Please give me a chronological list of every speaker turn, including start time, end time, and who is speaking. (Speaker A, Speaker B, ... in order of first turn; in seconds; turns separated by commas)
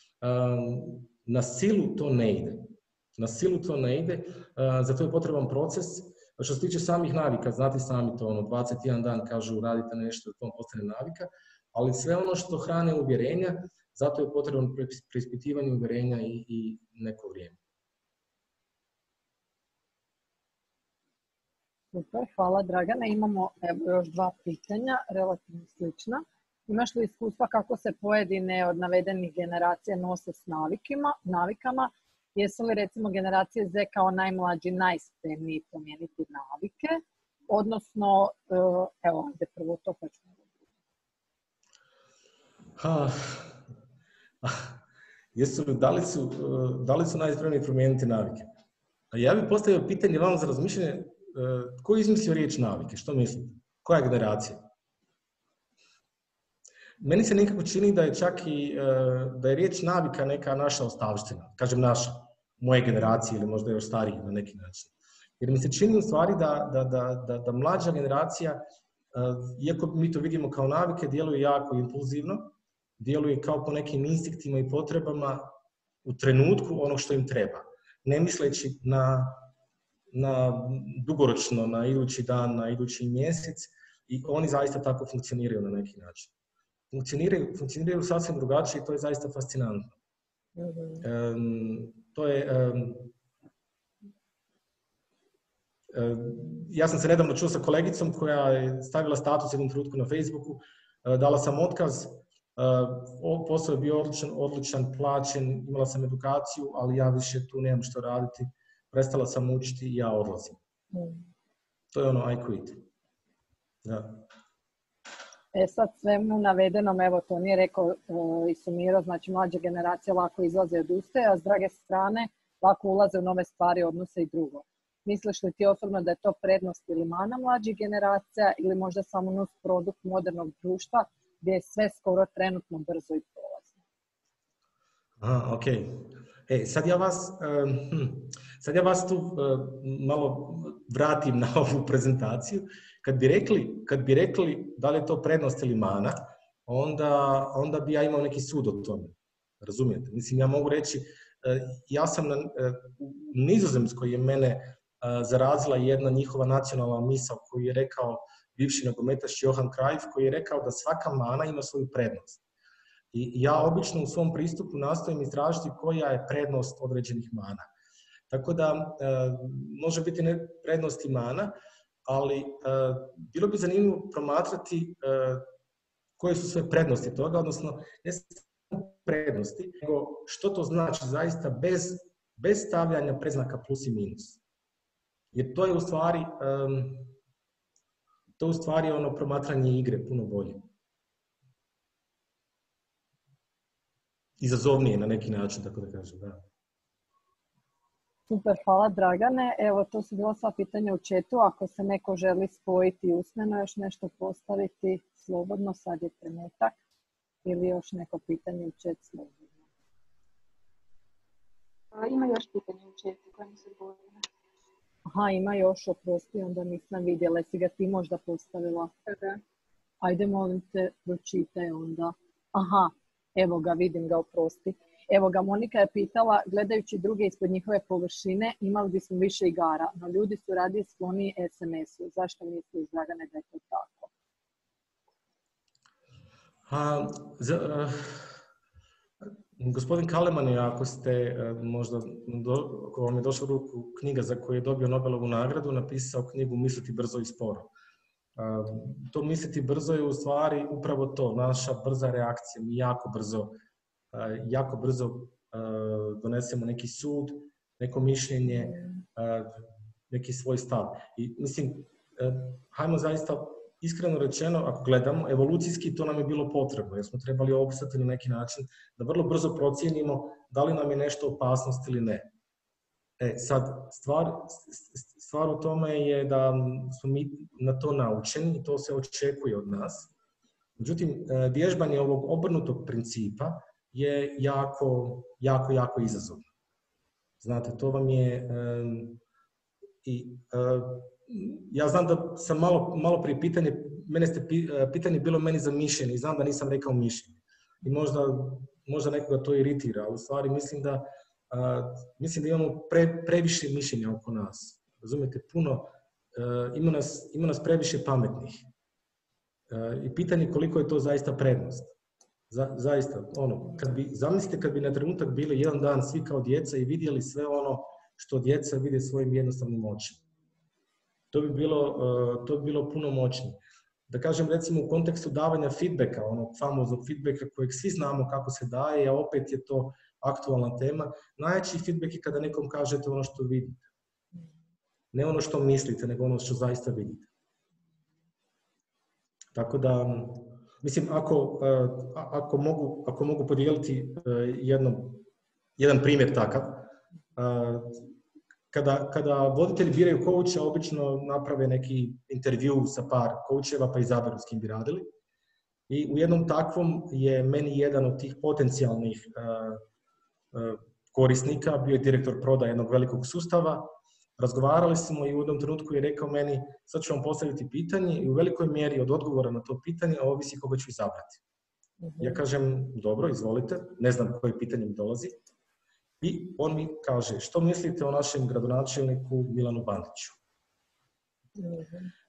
Speaker A: 0.2-17.6, Speaker B: 21.9-40.6, Speaker A: 42.8-43.6, Speaker A: 44.4-44.8, Speaker A: 45.4-48.5, Speaker A: 49.1-54.6, Speaker A: 57.0-75.5, Speaker A: 76.0-79.5, Speaker A: 80.1-86.3, Speaker A: 86.9-90.0, Speaker B: 90.6-91.0, Speaker A: 91.0-93.1, Speaker A: 95.9-110.6, Speaker B: 110.9-111.3, Speaker A: 111.9-112.8, Speaker A: 113.8-114.2, Speaker B: 115.5-133.8, Speaker A: 135.2-162.4, Speaker A: 163.1-167.7, Speaker A: 168.3-171.6, Speaker A: 172.1-175.5, Speaker A: 176.2-184.4, Speaker A: 185.3-187.1, Speaker A: 188.4-190.7, Speaker A: 194.4-196.4, Speaker B: 198.3-206.8, Speaker B: 207.4-209.6, Speaker C: 211.9-214.2, Speaker B: 215.1-218.9, Speaker B: 220.0-234.1, Speaker A: 236.7-238.4, Speaker A: 239.6-247.7, Speaker A: 248.4-253.6, Speaker A: 254.1-272.3, Speaker A: 273.2-280.1, Speaker A: 280.8-286.5, Speaker A: 287.4-289.2, Speaker A: 290.0-308.7, Speaker A: 309.7-311.9, Speaker A: 312.5-320.2, Speaker A: 321.3-333.9, Speaker A: 335.1-337.3, Speaker A: 339.6-345.2, Speaker A: 345.8-348.0, Speaker A: 348.7-355.1, Speaker A: 355.9-359.8, Speaker A: 360.5-371.4, Speaker B: 372.0-372.4, Speaker A: 372.2-375.4, Speaker A: 376.2-380.4, Speaker B: 381.6-382.1